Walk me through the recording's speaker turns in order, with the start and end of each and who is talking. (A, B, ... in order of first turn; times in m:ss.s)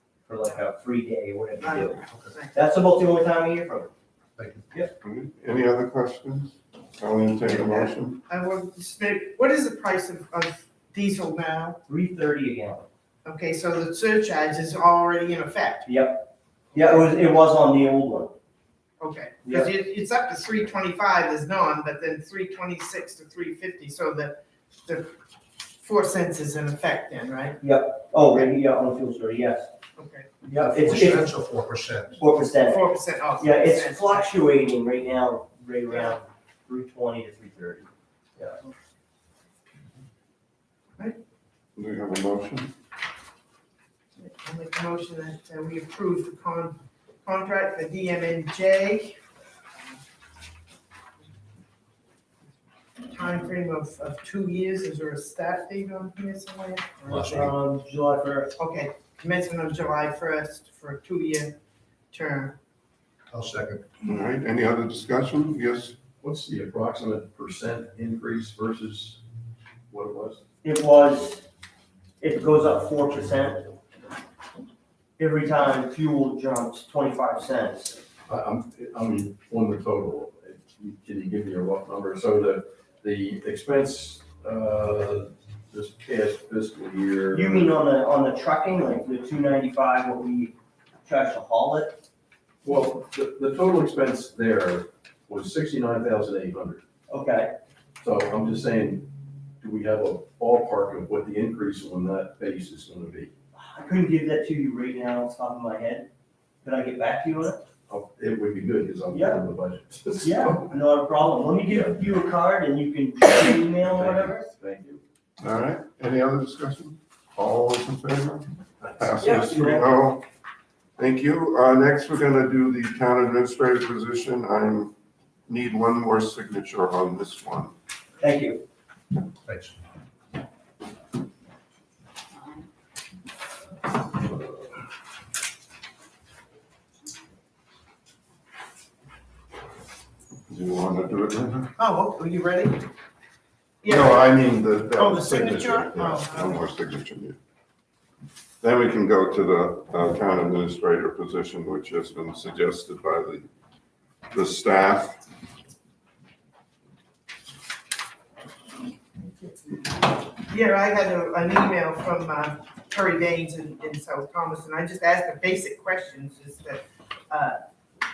0:00.3-0:03.9 A
0:01.6-0:02.6 B
0:04.4-0:04.7 C
0:05.0-0:08.2 D
0:07.6-0:11.8 B
0:11.9-0:12.9 A
0:13.2-0:15.9 B
0:15.9-0:18.4 A
0:19.0-0:25.2 B
0:25.8-0:27.6 B
0:27.6-0:29.7 A
0:30.0-0:30.3 B
0:30.4-0:31.3 A
0:30.6-0:32.2 C
0:32.2-0:32.8 A
0:32.7-0:34.3 B
0:33.4-0:38.6 A
0:41.8-0:42.7 D
0:44.2-0:49.2 B
0:53.1-0:57.5 B
0:57.1-0:57.5 C
0:57.1-0:58.5 A
0:58.6-1:01.6 B
1:02.1-1:02.6 B
1:03.3-1:03.9 C
1:04.0-1:06.0 D
1:06.2-1:09.2 E
1:09.9-1:10.4 E
1:10.6-1:11.4 A
1:12.2-1:13.7 A
1:15.2-1:18.0 A
1:18.3-1:27.8 E
1:27.3-1:32.0 A
1:32.6-1:36.8 E
1:37.1-1:37.5 A
1:38.0-1:39.1 E
1:39.6-1:43.3 E
1:43.6-1:46.1 A
1:46.6-1:47.6 A
1:47.9-1:50.7 E
1:49.1-1:49.4 A
1:50.2-1:54.5 A
1:53.4-1:55.0 E
1:55.4-2:00.2 D
1:59.0-2:00.0 A
2:01.0-2:04.9 D
2:05.5-2:07.7 D
2:08.2-2:08.6 A
2:09.4-2:09.8 C
2:20.5-2:21.7 D
2:21.8-2:22.9 B
2:23.8-2:24.4 B
2:23.9-2:27.4 D
2:24.9-2:26.7 B
2:28.6-2:33.5 D
2:34.3-2:35.2 D
2:40.4-2:47.6 B